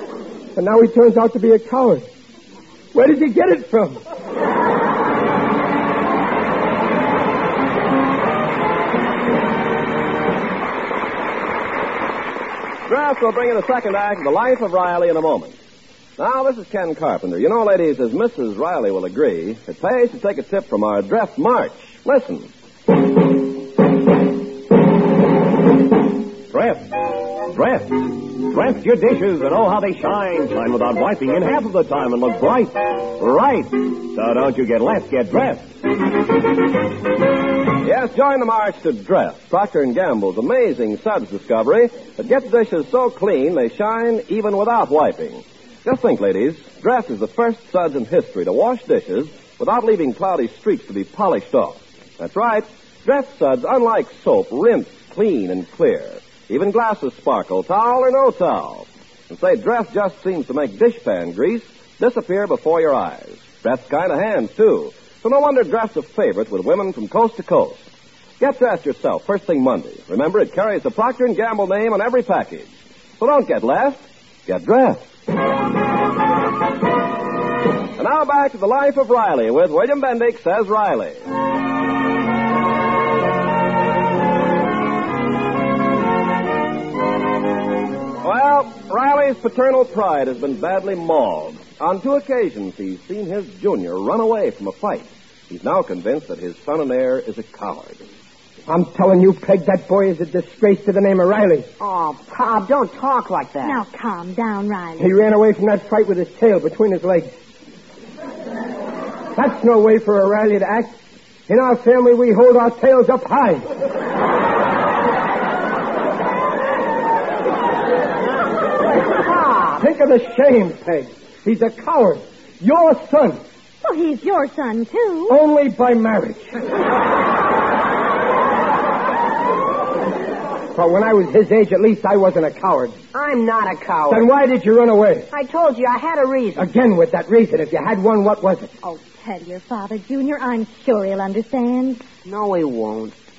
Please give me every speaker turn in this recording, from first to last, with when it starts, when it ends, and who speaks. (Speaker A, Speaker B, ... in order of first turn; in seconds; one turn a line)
Speaker A: 0.5-2.0
Speaker A: 2.9-4.0
Speaker B: 12.9-15.6
Speaker B: 16.2-22.5
Speaker C: 26.5-35.8
Speaker B: 37.8-67.9
Speaker B: 68.4-75.1
Speaker B: 78.0-81.2
Speaker B: 88.2-98.0
Speaker A: 98.7-101.7
Speaker D: 101.8-103.8
Speaker E: 103.6-105.1
Speaker A: 105.0-107.3
Speaker A: 109.3-110.9
Speaker A: 111.5-113.7
Speaker D: 119.1-119.8
Speaker A: 119.8-123.4
Speaker E: 123.8-125.4
Speaker A: 125.3-126.5
Speaker A: 130.7-133.0
Speaker D: 133.1-134.2
Speaker A: 134.1-135.3
Speaker D: 135.3-136.7
Speaker A: 136.6-138.7
Speaker E: 138.8-142.0
Speaker D: 142.2-143.2